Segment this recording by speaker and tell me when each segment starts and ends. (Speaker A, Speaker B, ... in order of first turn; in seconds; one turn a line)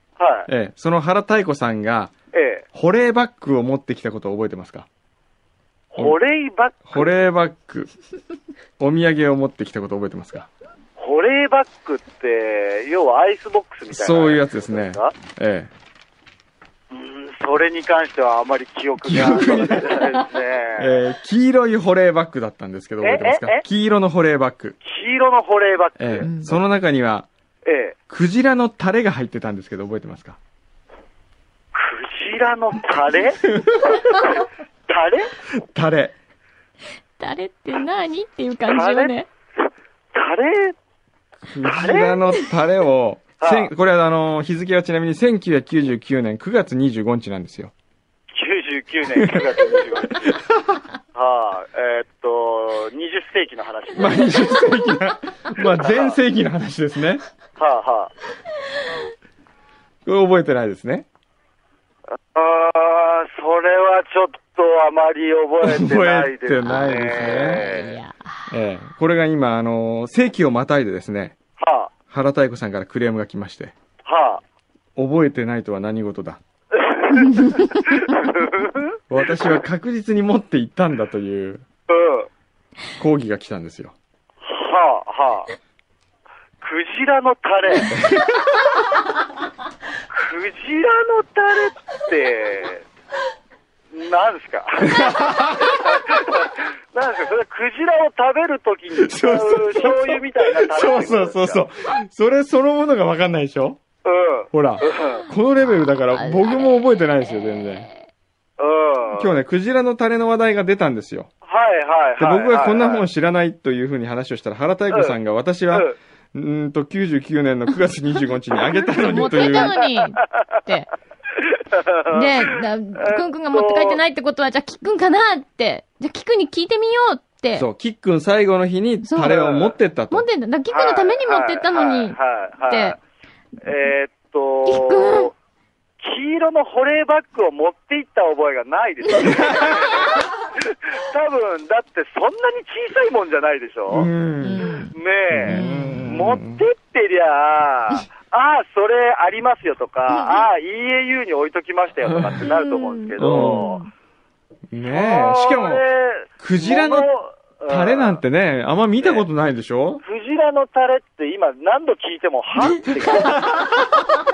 Speaker A: 0.2-0.5
Speaker B: 0.5-2.1
Speaker A: 2.3-2.6
Speaker B: 2.7-4.9
Speaker A: 5.9-7.1
Speaker B: 6.9-7.9
Speaker B: 8.8-10.5
Speaker A: 11.0-15.1
Speaker B: 13.9-15.7
Speaker A: 16.9-21.0
Speaker B: 19.1-20.3
Speaker B: 20.8-24.8
Speaker A: 23.0-23.6
Speaker A: 24.8-26.3
Speaker B: 26.0-27.3
Speaker C: 26.2-26.6
Speaker A: 27.6-28.0
Speaker B: 28.1-30.4
Speaker A: 31.7-35.3
Speaker B: 33.5-34.0
Speaker B: 35.5-36.1
Speaker C: 37.2-39.3
Speaker A: 38.7-39.1
Speaker A: 40.1-40.8
Speaker B: 41.5-47.7
Speaker A: 41.6-42.2
Speaker A: 43.4-43.7
Speaker A: 48.3-50.4
Speaker B: 49.1-50.8
Speaker A: 51.1-54.6
Speaker B: 54.0-57.2
Speaker A: 55.6-56.2
Speaker A: 57.6-58.1
Speaker B: 60.0-61.1
Speaker A: 62.3-67.9
Speaker B: 65.6-67.7
Speaker C: 66.7-68.5
Speaker B: 68.5-71.4
Speaker A: 71.6-71.9
Speaker B: 72.1-73.7
Speaker A: 74.0-74.4
Speaker B: 75.0-76.4
Speaker A: 76.8-77.4
Speaker C: 77.2-77.9
Speaker A: 78.1-79.0
Speaker B: 79.1-81.6
Speaker A: 81.9-82.3
Speaker B: 83.0-83.9
Speaker A: 84.4-85.5
Speaker A: 86.6-88.0
Speaker B: 88.0-88.3
Speaker A: 90.1-92.8
Speaker A: 93.9-101.7
Speaker B: 94.8-96.2
Speaker B: 99.0-103.8
Speaker A: 104.0-105.3
Speaker B: 104.5-107.9
Speaker C: 105.7-108.1
Speaker A: 108.6-109.3
Speaker B: 109.2-111.3
Speaker A: 111.4-113.0
Speaker B: 112.2-119.8
Speaker C: 118.8-120.9
Speaker A: 119.4-120.6
Speaker A: 121.4-124.0
Speaker C: 122.1-127.7
Speaker B: 127.5-130.3
Speaker C: 129.0-129.4
Speaker A: 129.2-129.8
Speaker C: 130.1-132.2
Speaker A: 130.7-133.0
Speaker C: 132.7-133.0
Speaker A: 133.6-135.3
Speaker C: 134.7-135.3
Speaker A: 136.0-144.1
Speaker B: 139.2-139.9
Speaker B: 143.9-144.7
Speaker C: 144.4-144.9
Speaker A: 144.9-153.8
Speaker B: 145.3-146.6
Speaker C: 145.5-146.0
Speaker C: 150.1-150.4
Speaker B: 152.1-152.4
Speaker C: 152.4-153.9
Speaker B: 153.2-153.7
Speaker B: 154.7-155.8
Speaker A: 154.9-158.2
Speaker B: 156.4-157.1
Speaker B: 157.7-160.0
Speaker A: 159.0-159.2
Speaker A: 160.0-163.6
Speaker B: 163.2-163.8